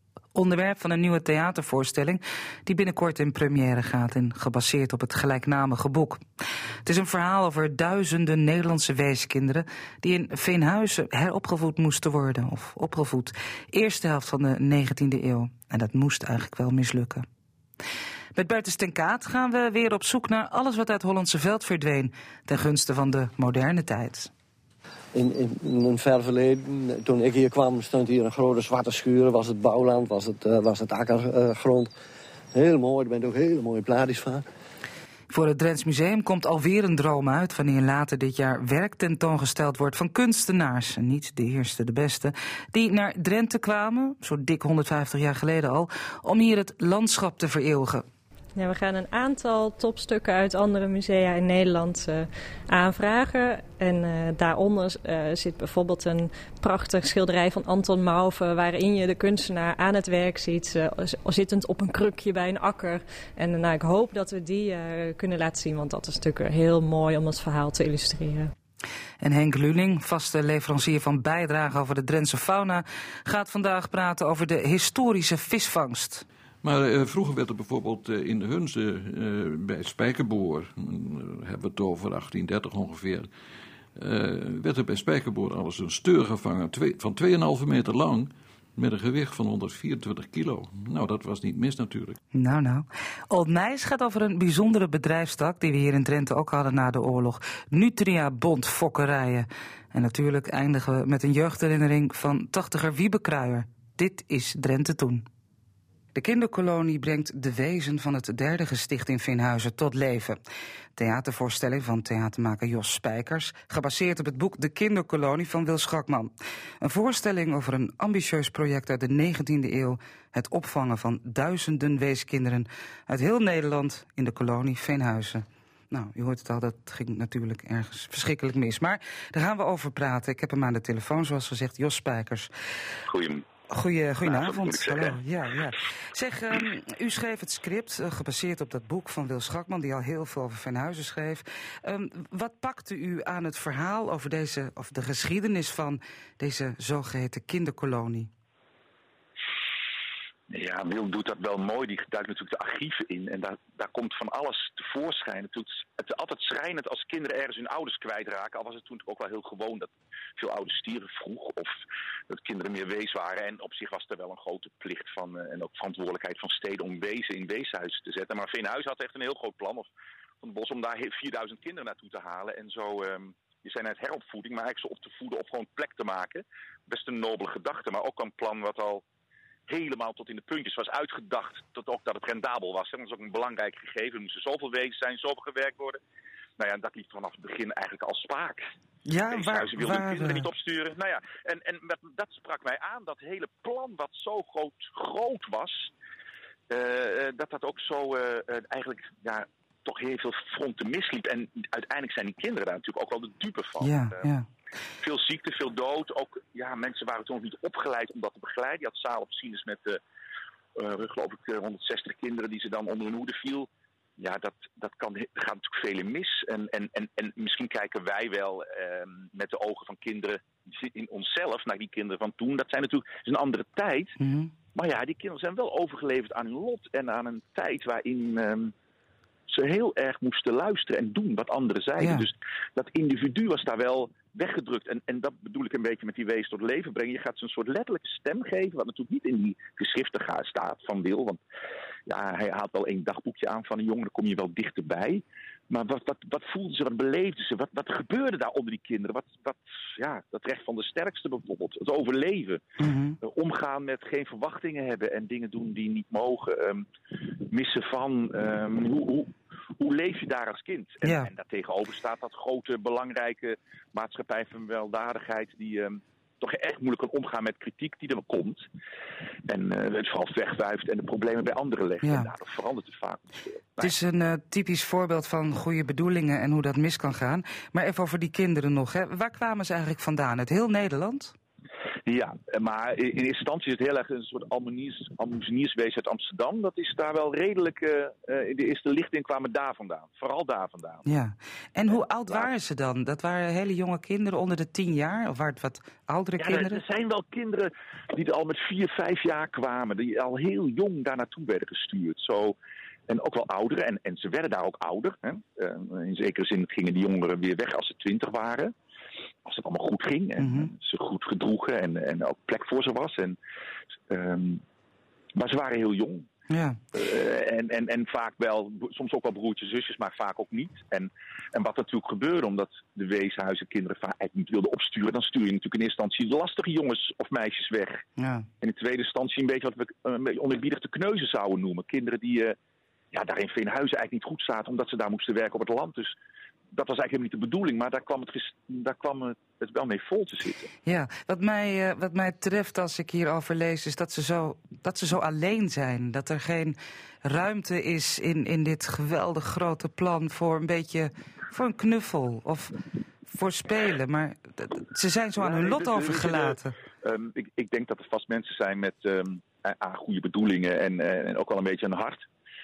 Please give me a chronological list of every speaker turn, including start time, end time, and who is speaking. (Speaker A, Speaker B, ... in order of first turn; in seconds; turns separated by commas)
Speaker A: 0.3-17.2, Speaker A: 18.3-24.3, Speaker B: 25.1-31.9, Speaker B: 32.5-34.4, Speaker A: 35.3-48.0, Speaker C: 48.5-68.5, Speaker A: 69.2-76.3, Speaker D: 76.6-83.3, Speaker D: 84.0-92.2, Speaker A: 92.3-105.3, Speaker A: 106.2-110.4, Speaker A: 111.0-132.5, Speaker E: 133.1-133.4, Speaker A: 133.7-148.3, Speaker E: 134.2-135.2, Speaker E: 150.5-161.7, Speaker E: 162.3-169.9, Speaker E: 170.4-179.0, Speaker E: 179.7-186.0, Speaker E: 186.6-188.6, Speaker A: 189.1-190.5, Speaker E: 189.3-195.9, Speaker E: 196.7-203.9, Speaker A: 203.8-204.5, Speaker E: 205.0-210.0, Speaker E: 210.8-224.2, Speaker A: 224.2-224.5, Speaker E: 224.7-228.7, Speaker E: 229.5-241.4, Speaker A: 232.0-232.2, Speaker E: 242.1-252.6, Speaker A: 252.8-253.2, Speaker E: 253.2-268.7, Speaker A: 261.0-261.3, Speaker E: 269.5-273.9, Speaker A: 272.0-272.3, Speaker A: 273.8-281.4, Speaker E: 282.1-291.1, Speaker A: 291.1-296.8, Speaker E: 291.9-292.5, Speaker E: 296.4-302.6, Speaker E: 303.1-308.7, Speaker E: 309.4-313.4, Speaker A: 310.4-310.7, Speaker E: 314.1-314.6, Speaker E: 315.4-316.3, Speaker A: 316.5-316.8, Speaker E: 316.9-328.0, Speaker A: 328.2-328.5, Speaker E: 328.6-332.6, Speaker E: 333.1-336.1, Speaker E: 336.7-340.7, Speaker A: 340.9-352.8, Speaker A: 353.3-356.8, Speaker E: 355.4-362.2